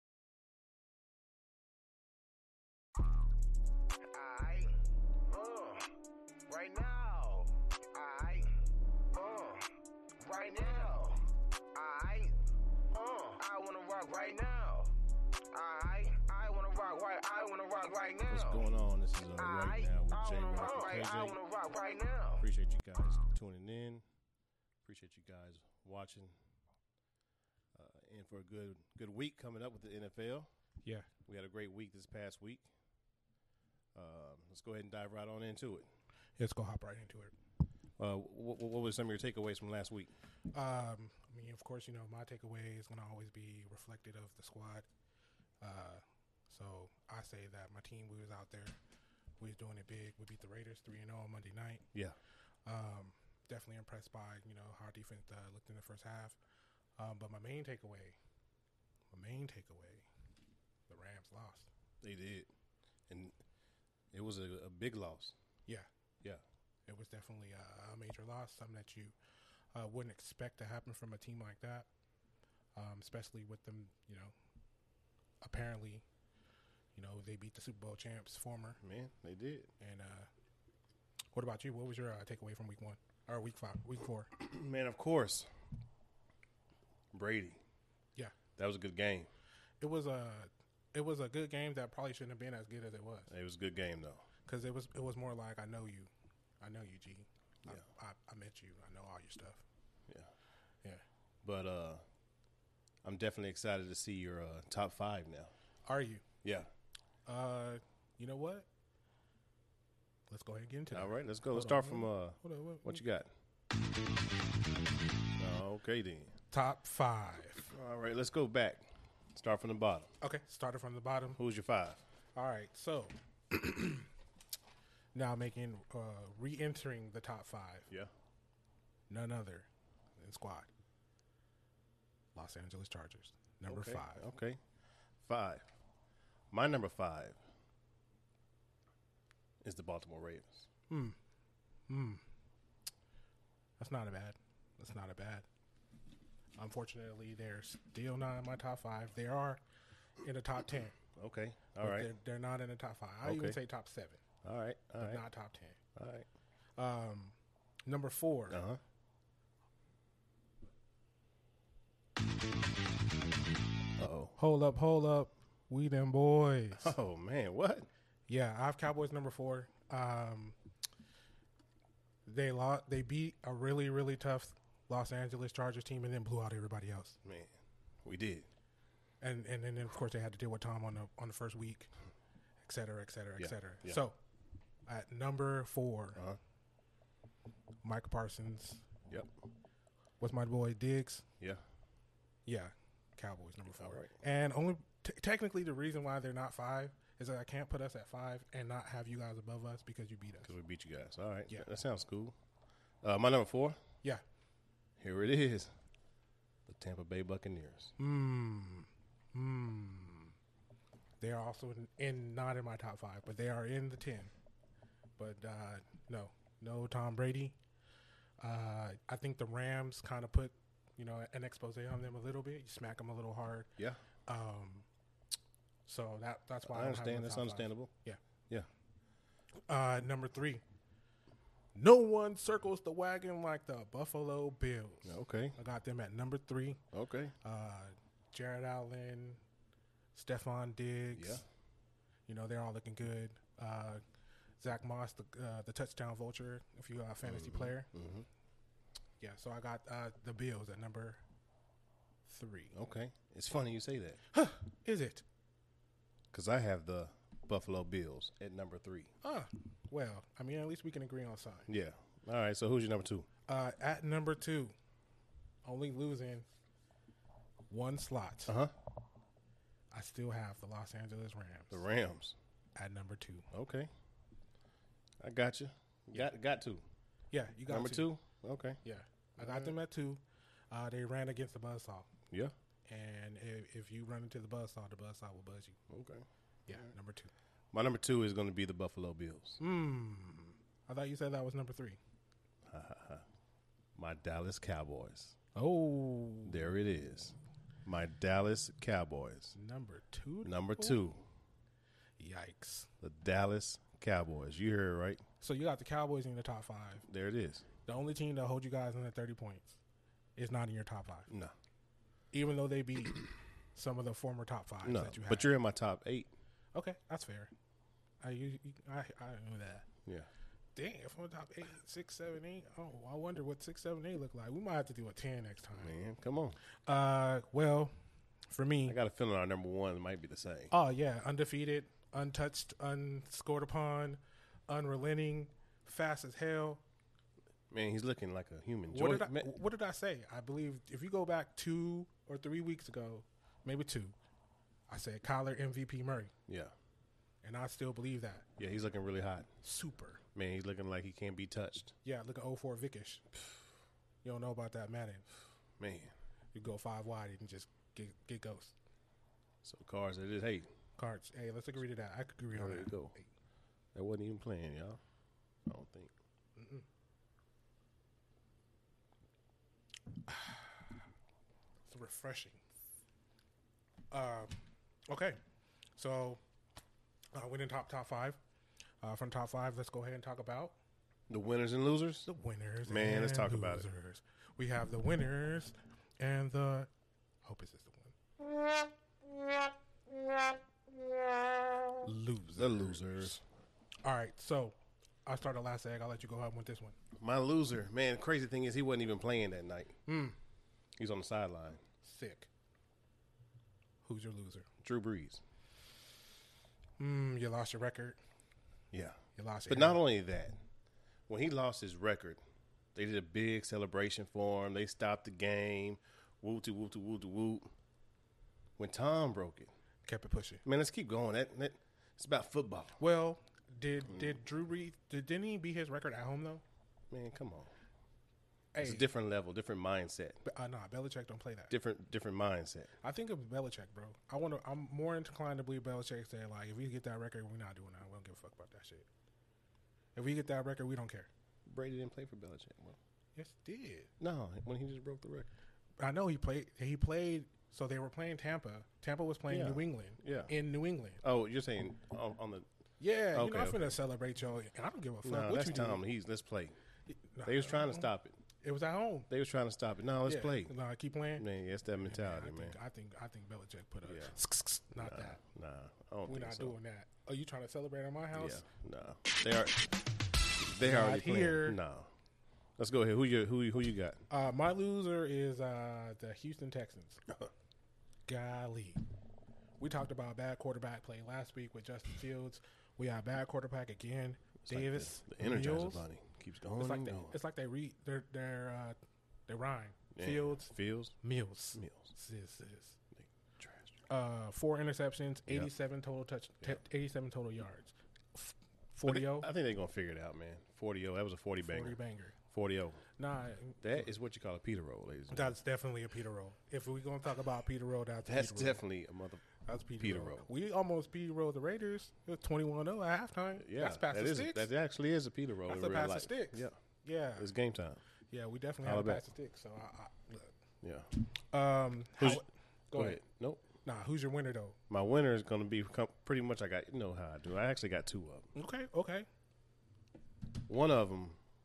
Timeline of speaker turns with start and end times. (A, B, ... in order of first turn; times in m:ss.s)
0:04.1-0:05.9 A
0:06.5-0:08.6 A
0:09.1-0:09.7 A
0:10.2-0:12.4 A
0:12.9-0:14.9 A
0:15.5-0:18.6 A
0:18.3-0:21.4 B
0:19.4-0:22.4 A
0:22.4-0:24.0 B
0:24.8-0:26.3 B
0:27.8-0:30.5 B
0:31.3-0:32.7 B
0:34.0-0:35.9 B
0:36.4-0:37.3 C
0:38.0-0:40.1 B
0:40.5-0:44.9 C
0:45.6-0:48.8 C
0:49.4-0:51.8 C
0:52.7-0:56.4 C
0:57.0-0:58.2 C
0:59.1-1:00.1 C
1:00.9-1:01.7 C
1:02.0-1:02.5 B
1:03.1-1:03.4 B
1:04.1-1:05.4 B
1:06.9-1:09.2 C
1:09.7-1:11.9 C
1:12.8-1:14.3 C
1:15.4-1:16.0 C
1:17.0-1:18.8 C
1:18.8-1:19.7 B
1:19.8-1:20.3 C
1:21.3-1:24.3 C
1:24.4-1:25.5 B
1:27.1-1:27.6 B
1:28.6-1:29.3 B
1:29.8-1:33.3 C
1:33.3-1:34.2 B
1:34.5-1:36.1 C
1:36.6-1:39.6 C
1:41.4-1:42.0 B
1:43.0-1:45.5 B
1:45.9-1:46.2 C
1:46.4-1:46.7 B
1:47.3-1:48.7 C
1:50.3-1:53.0 C
1:50.9-1:53.3 B
1:55.4-1:56.3 B
1:56.5-1:57.7 C
1:57.7-2:00.1 B
2:00.2-2:01.4 C
2:01.4-2:02.0 B
2:02.4-2:04.1 C
2:05.1-2:07.9 C
2:09.1-2:10.7 C
2:12.4-2:14.3 C
2:13.7-2:14.6 B
2:15.3-2:15.7 B
2:16.5-2:17.4 B
2:19.6-2:20.7 B
2:20.9-2:21.2 C
2:21.9-2:22.2 C
2:23.8-2:25.5 C
2:26.6-2:29.6 C
2:30.2-2:31.0 C
2:31.1-2:32.2 B
2:31.8-2:34.2 C
2:33.2-2:33.6 B
2:34.4-2:35.2 B
2:35.0-2:35.8 C
2:36.0-2:36.3 B
2:36.8-2:38.6 C
2:38.5-2:38.8 B
2:44.0-2:44.4 B
2:44.4-2:47.0 C
2:46.8-2:47.9 B
2:48.3-2:50.6 C
2:52.3-2:57.2 C
2:57.2-2:57.5 B
2:58.0-2:58.5 B
2:59.2-3:01.9 C
3:02.6-3:04.2 C
3:03.4-3:04.0 B
3:04.9-3:06.2 C
3:07.8-3:08.8 C
3:10.2-3:11.2 C
3:12.5-3:20.5 C
3:13.7-3:14.2 B
3:20.4-3:22.4 B
3:23.0-3:23.8 B
3:25.0-3:25.7 B
3:26.7-3:27.9 B
3:28.0-3:30.3 C
3:31.2-3:34.3 C
3:35.2-3:37.6 C
3:38.4-3:43.7 C
3:44.3-3:44.9 C
3:45.9-3:48.2 C
3:46.6-3:47.9 B
3:49.7-3:50.6 C
3:51.8-3:56.8 C
3:55.0-3:55.6 B
3:56.9-3:57.4 B
3:57.4-3:59.4 C
4:00.1-4:01.4 C
4:01.1-4:01.4 B
4:02.3-4:04.0 C
4:04.6-4:07.9 C
4:07.2-4:08.3 B
4:09.2-4:11.2 C
4:12.3-4:12.7 C
4:12.7-4:14.2 B
4:14.3-4:15.2 C
4:16.3-4:19.1 B
4:19.2-4:21.7 C
4:21.7-4:23.3 B
4:23.5-4:24.7 C
4:25.6-4:26.5 C
4:27.7-4:28.6 C
4:28.5-4:28.7 B
4:29.9-4:31.9 C
4:31.7-4:32.4 B
4:32.8-4:33.5 C
4:33.5-4:33.9 B
4:35.2-4:36.8 B
4:37.3-4:38.1 C
4:37.7-4:38.8 B
4:38.8-4:42.1 C
4:39.4-4:39.7 B
4:42.9-4:45.8 C
4:45.9-4:46.9 B
4:46.7-4:47.3 C
4:47.7-4:49.6 B
4:49.6-4:52.0 C
4:52.7-4:53.2 B
4:54.0-4:55.4 B
4:55.6-4:56.6 C
4:56.5-4:59.6 B
4:59.6-5:01.0 C
5:00.4-5:01.2 B
5:02.2-5:02.9 C
5:03.0-5:05.2 B
5:05.4-5:07.0 C
5:07.1-5:07.7 B
5:07.9-5:09.8 C
5:10.4-5:11.3 C
5:11.3-5:11.5 B
5:12.3-5:13.2 C
5:13.7-5:15.5 C
5:14.8-5:16.3 B
5:16.7-5:17.5 C
5:18.2-5:19.9 C
5:20.8-5:26.0 C
5:25.8-5:26.6 B
5:26.9-5:27.9 C
5:28.5-5:29.0 C
5:28.9-5:30.7 B
5:30.7-5:36.8 C
5:37.7-5:39.5 B
5:38.9-5:44.2 C
5:44.9-5:46.3 C
5:46.5-5:46.7 B
5:47.4-5:48.5 C
5:48.6-5:49.5 B
5:49.6-5:50.2 C
5:50.4-5:51.9 B
5:52.0-5:53.2 C
5:54.2-5:55.3 C
5:55.8-5:56.1 B
5:56.5-5:58.7 C
5:59.6-6:00.7 B
6:01.0-6:03.2 C
6:02.5-6:03.2 B
6:04.0-6:05.0 B
6:05.7-6:06.1 B
6:06.6-6:06.8 C
6:10.3-6:10.9 C
6:11.9-6:12.6 C
6:14.1-6:14.6 C
6:15.1-6:15.4 C
6:16.0-6:16.4 C
6:17.3-6:18.4 C
6:19.0-6:20.8 C
6:21.3-6:22.3 B
6:22.3-6:26.9 C
6:22.8-6:23.9 B
6:27.4-6:28.2 C
6:32.0-6:33.4 C
6:32.6-6:33.4 B
6:34.0-6:37.0 C
6:37.2-6:40.0 B
6:40.1-6:40.4 C
6:41.0-6:41.8 B
6:42.0-6:42.5 C
6:44.0-6:44.7 C
6:44.8-6:45.4 B
6:47.0-6:48.2 C
6:48.9-6:50.6 B
6:49.4-6:50.0 C
6:51.3-6:52.4 B
6:53.0-6:57.7 B
6:58.8-6:59.7 B
7:00.0-7:00.6 C
7:00.6-7:03.0 B
7:03.0-7:06.6 C
7:07.1-7:07.7 B
7:08.7-7:09.1 C
7:08.8-7:10.4 B
7:10.4-7:11.7 C
7:11.7-7:12.9 B
7:13.0-7:19.1 C
7:20.2-7:21.3 C
7:21.7-7:23.0 B
7:23.4-7:24.1 C
7:24.2-7:25.5 B
7:26.0-7:31.2 C
7:29.5-7:30.6 B
7:31.2-7:32.7 B
7:33.0-7:36.0 C
7:33.3-7:33.9 B
7:35.2-7:36.8 B
7:37.1-7:39.3 C
7:37.4-7:38.4 B
7:39.3-7:40.7 B
7:40.3-7:45.4 C
7:41.4-7:42.8 B
7:44.0-7:44.4 B
7:45.0-7:46.8 B
7:46.3-7:48.6 C
7:48.3-7:49.9 B
7:50.6-7:52.1 B
7:50.8-7:51.8 C
7:52.8-7:54.2 B
7:54.3-7:57.2 C
7:58.3-7:59.0 C
7:59.8-8:06.1 C
8:04.6-8:07.4 B
8:06.8-8:09.0 C
8:09.5-8:13.0 C
8:10.2-8:11.2 B
8:11.8-8:12.1 B
8:13.2-8:14.0 B
8:14.1-8:19.5 C
8:19.1-8:22.0 B
8:21.6-8:22.4 C
8:22.5-8:23.0 B
8:23.2-8:24.1 C
8:23.8-8:25.6 B
8:25.3-8:28.8 C
8:28.3-8:29.5 B
8:29.6-8:34.7 C
8:30.0-8:30.5 B
8:33.6-8:36.8 B
8:35.7-8:37.5 C
8:37.4-8:38.0 B
8:38.3-8:40.5 C
8:38.8-8:39.2 B
8:40.8-8:41.1 B
8:41.5-8:43.2 C
8:42.2-8:43.6 B
8:43.8-8:44.8 C
8:44.9-8:48.5 B
8:48.6-8:49.3 C
8:50.7-8:51.4 B